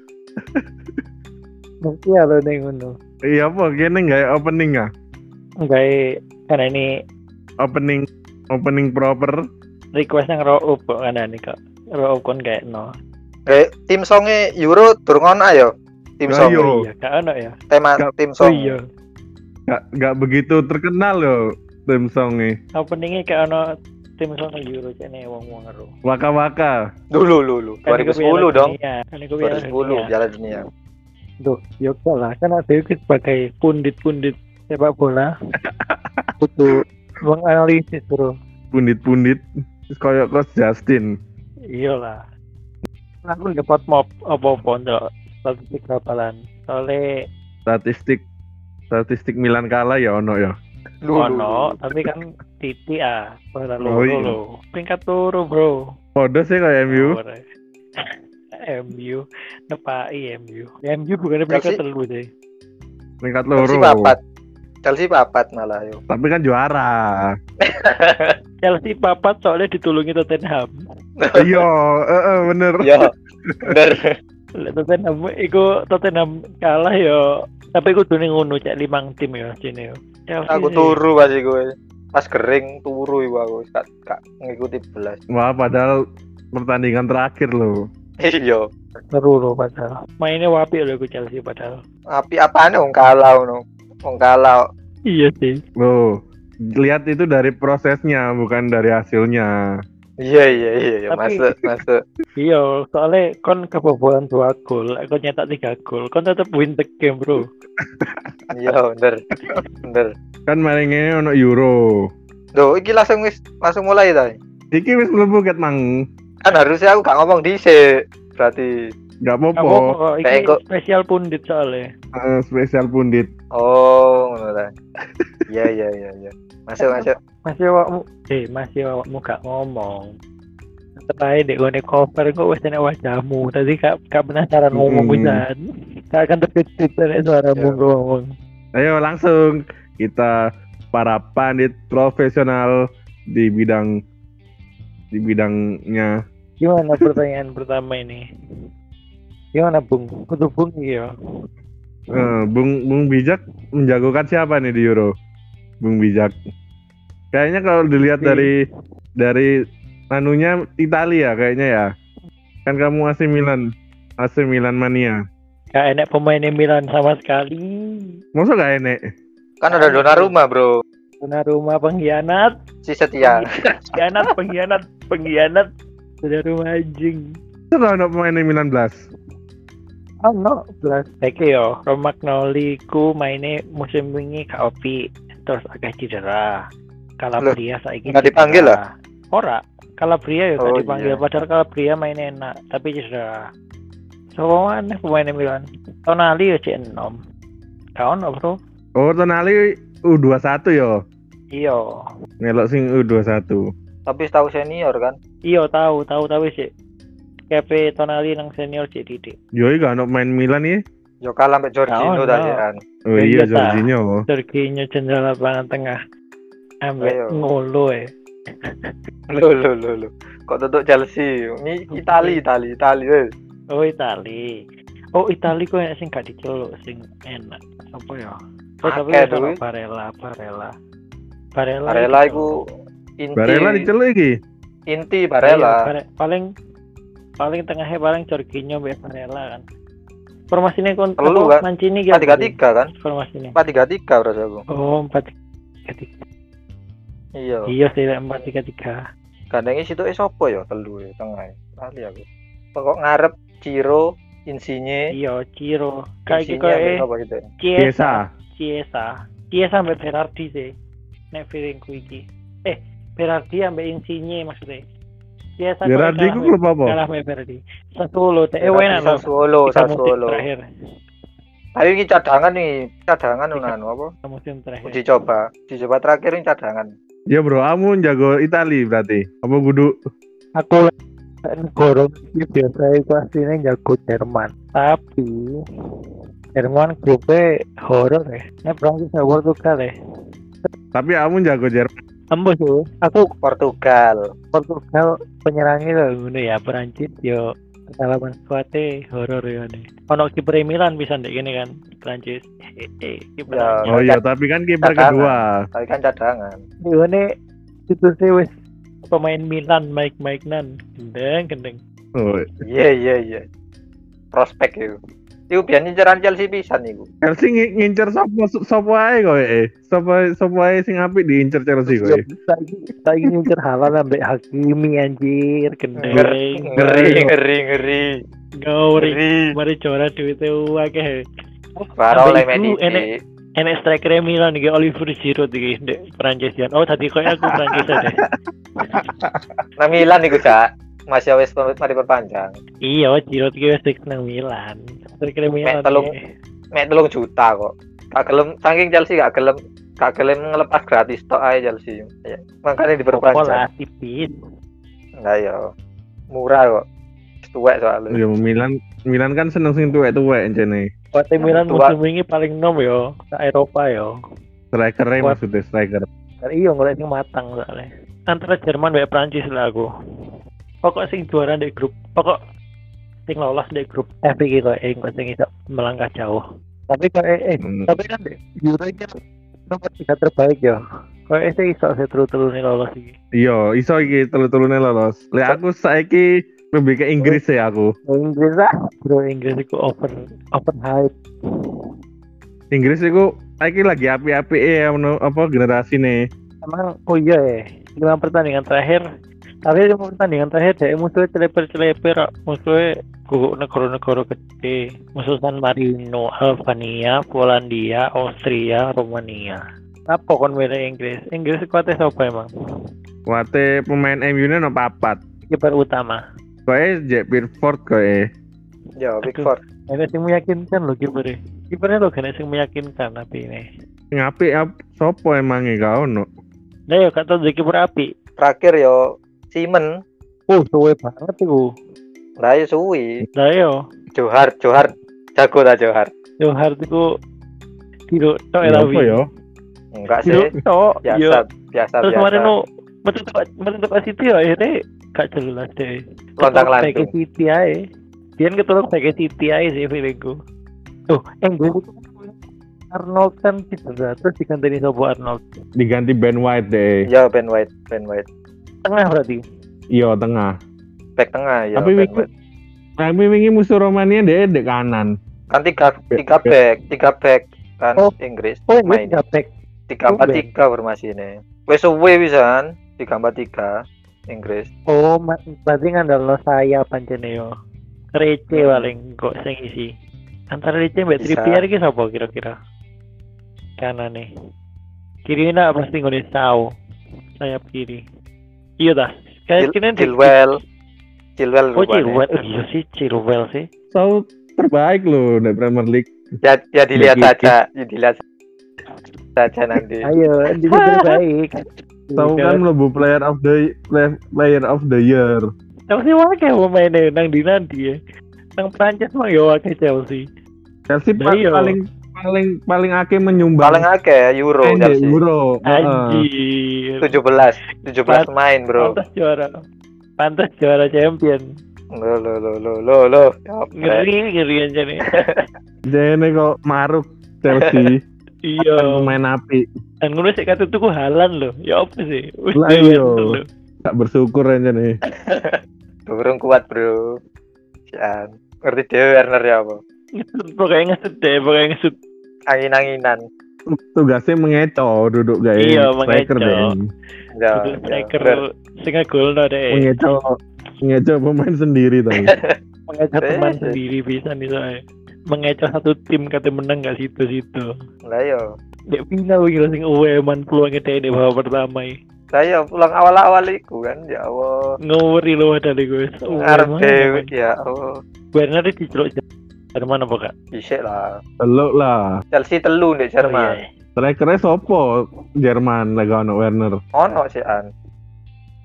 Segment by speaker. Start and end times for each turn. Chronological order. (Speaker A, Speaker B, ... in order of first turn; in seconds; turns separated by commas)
Speaker A: 1.9-2.9, Speaker B: 3.3-4.8, Speaker A: 5.6-5.9, Speaker A: 6.5-6.9, Speaker B: 7.6-9.4, Speaker A: 9.9-12.9, Speaker C: 13.5-16.6, Speaker B: 16.3-16.8, Speaker A: 16.4-17.5, Speaker C: 17.7-18.8, Speaker A: 18.4-18.8, Speaker B: 19.7-22.6, Speaker A: 22.8-23.6, Speaker A: 24.2-25.9, Speaker B: 26.0-26.7, Speaker C: 27.1-28.7, Speaker A: 27.9-30.1, Speaker C: 29.4-30.6, Speaker A: 31.4-35.3, Speaker B: 35.6-36.3, Speaker A: 36.4-38.3, Speaker B: 38.7-41.1, Speaker A: 41.8-42.2, Speaker A: 43.2-47.0, Speaker B: 47.6-48.2, Speaker B: 48.9-50.5, Speaker C: 51.0-51.8, Speaker A: 51.2-55.8, Speaker B: 53.8-54.4, Speaker B: 56.1-57.2, Speaker A: 56.9-57.4, Speaker A: 58.0-62.3, Speaker C: 61.5-61.8, Speaker B: 63.2-64.1, Speaker C: 63.6-64.2, Speaker C: 64.8-66.0, Speaker B: 66.1-67.3, Speaker C: 67.6-68.3, Speaker A: 68.6-70.7, Speaker C: 71.2-71.5, Speaker B: 71.3-73.7, Speaker C: 72.8-73.1, Speaker C: 73.6-74.1, Speaker A: 74.6-77.2, Speaker A: 77.7-81.0, Speaker C: 80.5-85.2, Speaker B: 85.3-86.0, Speaker B: 86.5-87.9, Speaker C: 88.2-88.7, Speaker A: 89.1-91.8, Speaker C: 92.1-94.6, Speaker A: 95.1-95.6, Speaker B: 95.8-96.2, Speaker B: 96.8-99.5, Speaker C: 100.2-102.0, Speaker A: 101.1-101.5, Speaker A: 102.4-107.5, Speaker B: 107.8-108.3, Speaker C: 108.5-109.2, Speaker C: 109.8-110.1, Speaker B: 110.5-112.1, Speaker C: 112.5-114.3, Speaker B: 114.7-115.8, Speaker C: 116.4-117.8, Speaker C: 118.4-118.7, Speaker B: 119.2-119.9, Speaker A: 119.6-121.9, Speaker C: 120.2-120.5, Speaker B: 122.1-123.3, Speaker C: 123.5-124.7, Speaker B: 125.1-125.4, Speaker C: 125.5-127.1, Speaker A: 126.8-130.1, Speaker A: 131.0-135.6, Speaker B: 134.7-135.4, Speaker A: 136.1-138.3, Speaker B: 138.8-140.3, Speaker B: 140.9-142.7, Speaker B: 143.3-143.9, Speaker B: 145.1-146.2, Speaker A: 146.6-148.2, Speaker A: 149.5-151.1, Speaker B: 152.1-155.1, Speaker B: 155.8-156.3, Speaker B: 157.3-158.5, Speaker A: 158.1-158.5, Speaker B: 159.2-159.5, Speaker B: 160.1-161.9, Speaker B: 162.7-163.7, Speaker B: 164.2-165.2, Speaker A: 165.7-168.1, Speaker B: 168.3-169.0, Speaker C: 169.6-170.7, Speaker A: 169.7-170.3, Speaker A: 171.2-172.5, Speaker C: 172.8-173.4, Speaker A: 173.2-175.7, Speaker A: 176.2-177.2, Speaker B: 177.7-179.1, Speaker A: 180.2-186.6, Speaker A: 187.2-193.4, Speaker C: 188.1-188.8, Speaker C: 190.6-191.2, Speaker A: 194.3-197.2, Speaker A: 198.0-198.6, Speaker B: 199.0-201.0, Speaker A: 201.5-201.9, Speaker B: 202.4-203.7, Speaker C: 204.1-205.2, Speaker A: 205.5-206.7, Speaker A: 207.5-209.3, Speaker B: 209.6-210.8, Speaker C: 211.2-212.8, Speaker A: 211.9-212.6, Speaker B: 213.1-214.2, Speaker A: 213.2-216.0, Speaker A: 216.8-218.1, Speaker C: 217.0-217.4, Speaker A: 218.6-218.9, Speaker C: 219.3-223.3, Speaker A: 221.9-222.4, Speaker A: 223.7-224.6, Speaker A: 225.1-230.7, Speaker C: 228.9-229.6, Speaker A: 231.5-232.5, Speaker C: 231.9-232.5, Speaker C: 233.2-233.9, Speaker B: 233.4-234.3, Speaker C: 234.9-235.8, Speaker A: 235.4-236.4, Speaker A: 237.4-239.6, Speaker A: 240.5-243.6, Speaker C: 241.2-242.9, Speaker C: 243.6-244.6, Speaker A: 244.7-245.3, Speaker A: 245.9-246.2, Speaker C: 247.4-247.7, Speaker A: 247.7-249.0, Speaker C: 249.5-252.2, Speaker C: 252.7-255.1, Speaker A: 255.1-257.0, Speaker C: 256.3-257.4, Speaker A: 257.6-260.7, Speaker B: 257.8-258.3, Speaker A: 261.3-264.8, Speaker A: 265.6-270.6, Speaker B: 265.9-267.0, Speaker C: 268.6-270.4, Speaker C: 271.8-274.1, Speaker A: 273.5-275.0, Speaker C: 274.9-276.9, Speaker B: 277.3-279.9, Speaker A: 280.6-280.9, Speaker A: 281.5-285.5, Speaker A: 286.6-289.9, Speaker B: 290.9-291.9, Speaker A: 292.3-293.3, Speaker C: 293.4-294.2, Speaker A: 294.5-297.4, Speaker A: 297.9-303.9, Speaker C: 303.5-304.2, Speaker B: 303.9-305.6, Speaker C: 304.8-306.6, Speaker A: 306.9-307.2, Speaker A: 307.9-308.5, Speaker A: 309.1-311.8, Speaker B: 312.1-312.5, Speaker C: 312.6-313.4, Speaker C: 314.3-314.9, Speaker C: 315.5-317.1, Speaker B: 317.2-322.2, Speaker A: 321.9-327.3, Speaker C: 326.0-328.2, Speaker A: 328.6-331.2, Speaker C: 329.0-329.5, Speaker A: 331.8-333.0, Speaker C: 332.0-333.1, Speaker A: 333.6-338.2, Speaker B: 338.9-339.5, Speaker C: 339.8-342.6, Speaker A: 342.8-346.1, Speaker C: 345.6-346.1, Speaker C: 346.7-353.6, Speaker A: 353.1-354.3, Speaker C: 355.2-355.7, Speaker C: 356.3-356.8, Speaker C: 357.4-358.2, Speaker B: 358.1-360.9, Speaker A: 361.1-364.1, Speaker C: 361.4-361.9, Speaker B: 364.7-366.1, Speaker A: 366.4-369.9, Speaker A: 370.8-372.4, Speaker A: 373.3-379.1, Speaker B: 377.6-377.9, Speaker A: 379.7-380.8, Speaker A: 381.3-383.1, Speaker B: 383.4-387.9, Speaker A: 388.1-391.1, Speaker B: 392.7-396.2, Speaker A: 396.6-399.0, Speaker A: 399.6-412.5, Speaker B: 413.3-415.2, Speaker A: 415.5-416.2, Speaker B: 416.7-418.2, Speaker C: 419.0-419.6, Speaker A: 419.2-423.6, Speaker B: 424.1-426.3, Speaker A: 426.9-428.1, Speaker C: 428.4-429.0, Speaker C: 429.5-429.9, Speaker A: 430.5-431.7, Speaker C: 432.4-433.2, Speaker A: 433.4-433.7, Speaker C: 434.1-436.1, Speaker A: 436.4-437.0, Speaker A: 438.1-439.2, Speaker B: 438.6-439.2, Speaker C: 439.9-440.5, Speaker A: 440.2-441.4, Speaker C: 441.1-442.5, Speaker A: 442.0-447.8, Speaker C: 446.4-447.1, Speaker A: 448.4-450.3, Speaker A: 451.1-455.4, Speaker B: 455.8-457.1, Speaker C: 457.1-458.2, Speaker A: 458.8-459.4, Speaker B: 459.9-460.5, Speaker C: 461.2-462.3, Speaker B: 461.8-462.2, Speaker B: 463.0-465.1, Speaker C: 465.5-469.2, Speaker B: 466.1-466.5, Speaker A: 468.7-469.5, Speaker C: 469.9-473.7, Speaker A: 470.1-470.5, Speaker C: 474.3-474.7, Speaker A: 474.9-477.5, Speaker A: 478.1-479.9, Speaker C: 478.5-478.9, Speaker A: 480.5-482.6, Speaker C: 481.2-481.6, Speaker A: 483.8-484.3, Speaker A: 485.3-486.7, Speaker A: 487.4-488.0, Speaker A: 488.8-490.4, Speaker C: 489.6-490.6, Speaker C: 491.4-492.2, Speaker A: 491.8-493.7, Speaker B: 493.9-496.1, Speaker C: 496.4-498.2, Speaker B: 496.9-497.5, Speaker C: 499.4-500.1, Speaker A: 500.0-501.5, Speaker A: 502.1-502.6, Speaker B: 502.2-505.4, Speaker A: 505.9-507.9, Speaker A: 508.6-510.2, Speaker B: 510.9-513.9, Speaker A: 511.2-511.8, Speaker C: 513.6-515.2, Speaker B: 514.6-516.2, Speaker A: 515.7-517.2, Speaker C: 517.0-519.0, Speaker A: 518.8-519.5, Speaker A: 520.2-521.4, Speaker C: 521.9-524.0, Speaker A: 523.8-525.0, Speaker C: 525.1-525.4, Speaker B: 525.9-528.0, Speaker A: 528.4-529.1, Speaker B: 528.7-529.6, Speaker A: 530.0-533.4, Speaker B: 532.5-535.0, Speaker C: 535.2-537.0, Speaker C: 537.9-539.8, Speaker A: 540.2-542.0, Speaker C: 542.5-543.2, Speaker B: 543.7-546.9, Speaker A: 545.6-546.6, Speaker C: 547.3-548.4, Speaker A: 547.5-549.9, Speaker B: 549.7-552.3, Speaker C: 552.2-552.5, Speaker A: 552.9-557.7, Speaker C: 553.2-553.8, Speaker C: 558.1-558.5, Speaker A: 558.9-561.9, Speaker C: 562.3-564.8, Speaker A: 564.9-567.3, Speaker C: 566.4-567.9, Speaker A: 568.3-569.2, Speaker A: 569.8-570.3, Speaker C: 570.5-571.1, Speaker B: 571.4-572.1, Speaker C: 572.3-573.6, Speaker A: 573.2-573.6, Speaker B: 574.0-576.8, Speaker C: 577.0-577.7